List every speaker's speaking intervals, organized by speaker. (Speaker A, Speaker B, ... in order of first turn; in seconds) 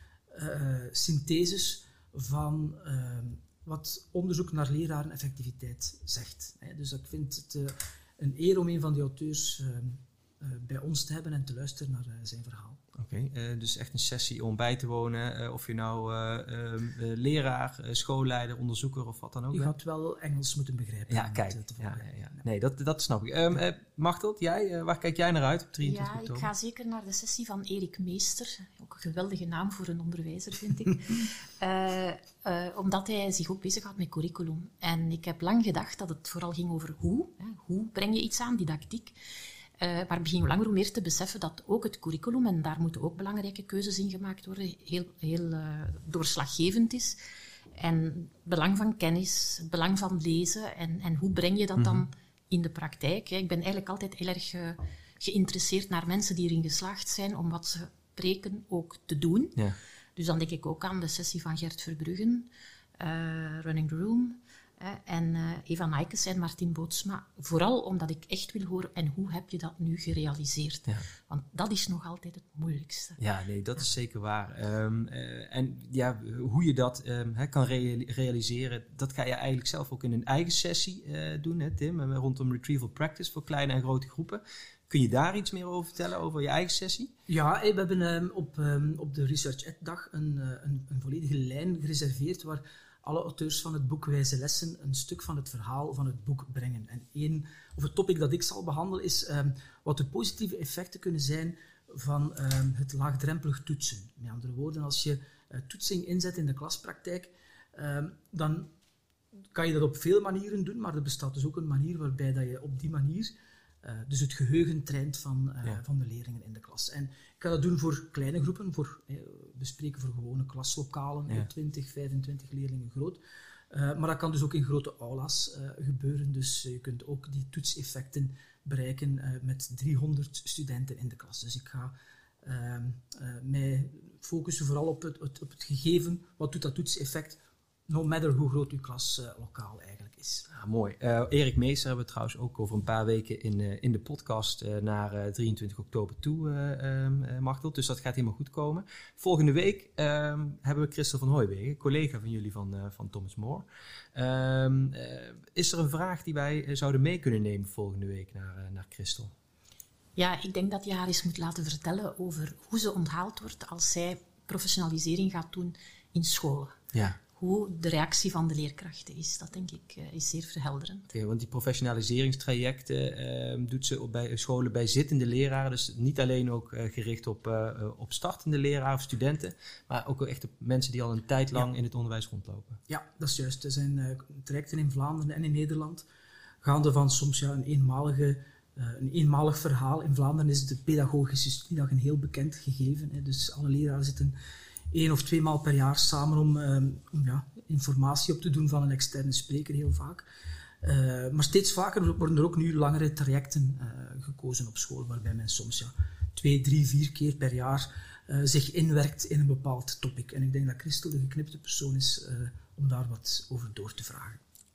Speaker A: 0.3-12.8, 19.5-22.4, 87.3-108.7, 109.5-140.4, 182.9-186.1, 186.6-194.3, 194.9-200.2, 200.8-214.4
Speaker B: 12.9-19.7, 21.1-26.5, 51.8-52.0, 73.2-87.1, 140.5-159.3, 171.1-182.8
Speaker C: 25.8-39.2, 39.8-47.2, 47.8-59.6, 60.1-73.2, 160.2-166.8, 167.3-171.1